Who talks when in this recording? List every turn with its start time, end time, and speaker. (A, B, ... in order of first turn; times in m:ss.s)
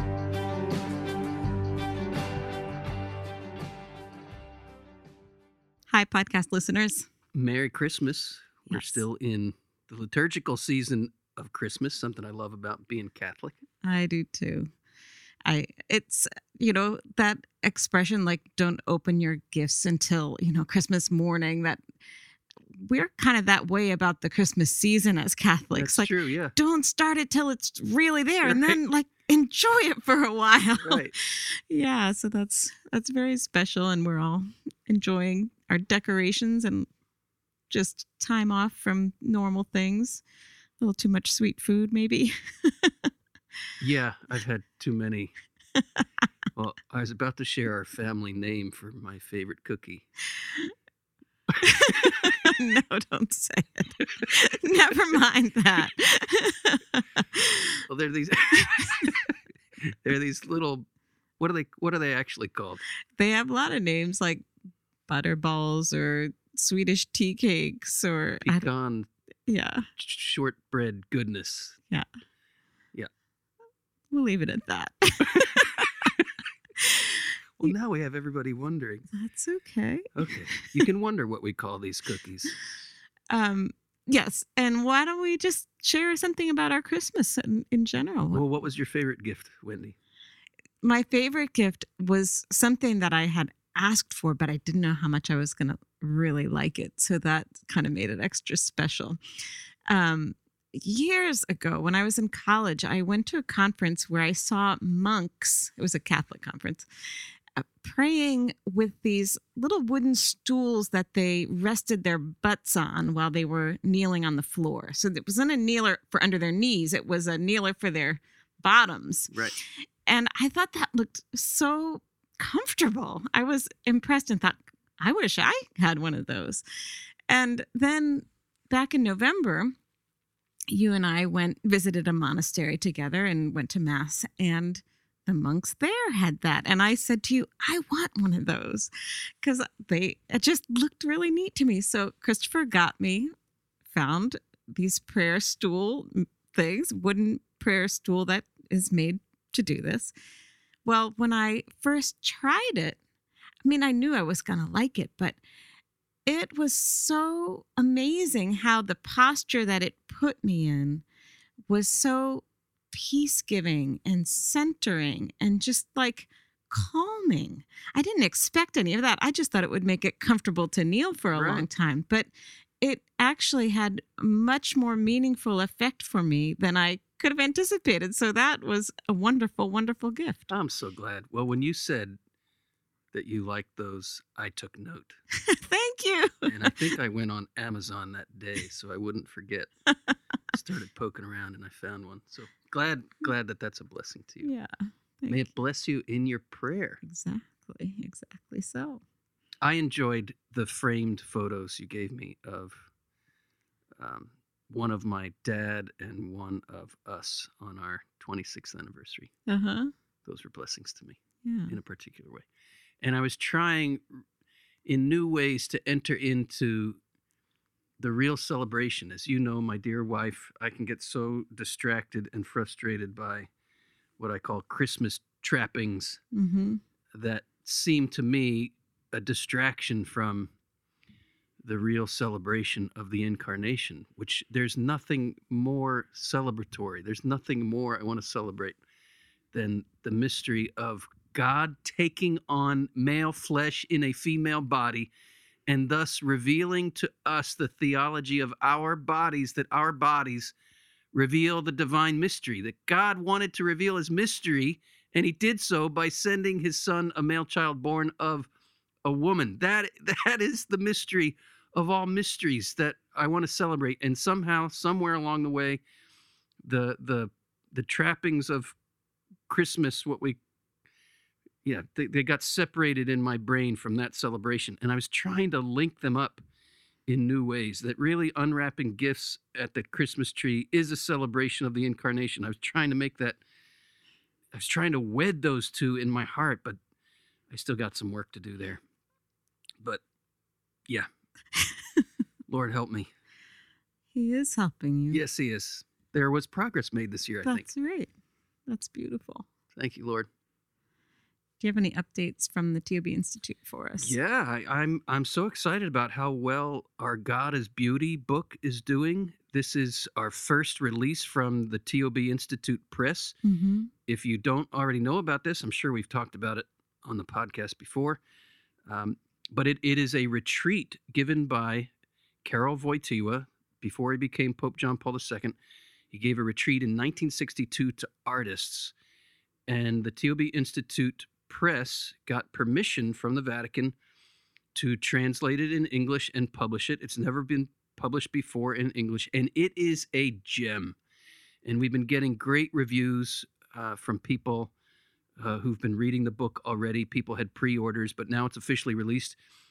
0:05.9-0:07.1 A
0:07.3-0:13.6 B
0:08.7-0:09.0 A
0:13.8-0:14.7 A
0:15.5-0:21.8 A
0:22.8-0:36.9 A
0:25.8-0:26.6 B
0:28.4-0:28.8 B
0:30.8-0:31.1 B
0:37.7-0:40.2 A
0:40.8-0:43.1 A
0:43.8-0:45.3 B
0:46.6-0:50.1 B
0:50.4-0:50.7 A
0:51.5-0:52.3 B
0:51.6-0:57.7 A
0:57.9-0:59.3 B
0:58.6-0:59.1 A
0:59.8-1:00.9 B
1:01.4-1:02.8 B
1:03.2-1:04.5 A
1:05.1-1:08.7 A
1:08.4-1:09.1 B
1:09.5-1:09.9 A
1:10.0-1:11.8 B
1:14.1-1:16.1 A
1:16.8-1:17.2 A
1:17.6-1:19.1 B
1:19.1-1:20.8 A
1:20.2-1:22.6 B
1:23.3-1:28.4 A
1:28.3-1:30.0 B
1:30.8-1:39.2 A
1:39.9-1:46.9 A
1:47.6-1:59.4 A
2:00.1-2:06.6 A
2:07.3-2:09.7 A
2:10.7-2:18.9 A
2:19.4-2:23.3 A
2:23.9-2:30.1 A
2:30.8-2:33.0 A
2:33.6-2:35.4 A
2:36.3-2:41.0 A
2:41.7-2:52.3 A
2:51.4-2:51.7 B
2:52.8-3:00.5 A
3:00.5-3:02.2 B
3:03.1-3:05.2 B
3:05.4-3:06.8 A
3:06.4-3:09.7 B
3:10.5-3:14.5 B
3:14.4-3:14.7 A
3:15.2-3:15.4 A
3:15.3-3:17.0 B
3:17.0-3:19.0 A
3:19.6-3:22.9 B
3:24.0-3:29.3 B
3:29.5-3:29.9 A
3:30.2-3:32.5 B
3:31.4-3:31.8 A
3:33.0-3:34.2 B
3:34.9-3:37.0 B
3:38.0-3:43.5 B
3:44.2-3:46.2 B
3:46.3-3:46.8 A
3:47.1-3:50.5 B
3:51.6-3:58.8 B
3:59.5-4:05.1 B
4:05.7-4:10.5 B
4:11.1-4:18.5 B
4:19.0-4:25.8 B
4:26.6-4:28.8 B
4:29.5-4:30.4 B
4:31.6-4:36.4 B
4:37.1-4:43.4 B
4:44.5-4:46.8 B
4:47.5-4:48.8 B
4:52.5-4:53.1 B
4:54.1-4:55.2 A
4:55.1-4:57.7 B
4:57.4-4:58.1 A
4:58.7-4:59.5 A
4:59.8-5:00.3 B
5:01.6-5:04.2 A
5:04.0-5:13.4 B
5:13.4-5:13.9 A
5:14.1-5:18.2 B
5:18.9-5:21.9 B
5:22.4-5:25.6 B
5:26.1-5:28.9 B
5:29.7-5:34.0 B
5:34.7-5:41.0 B
5:41.6-5:44.7 B
5:45.4-5:49.4 B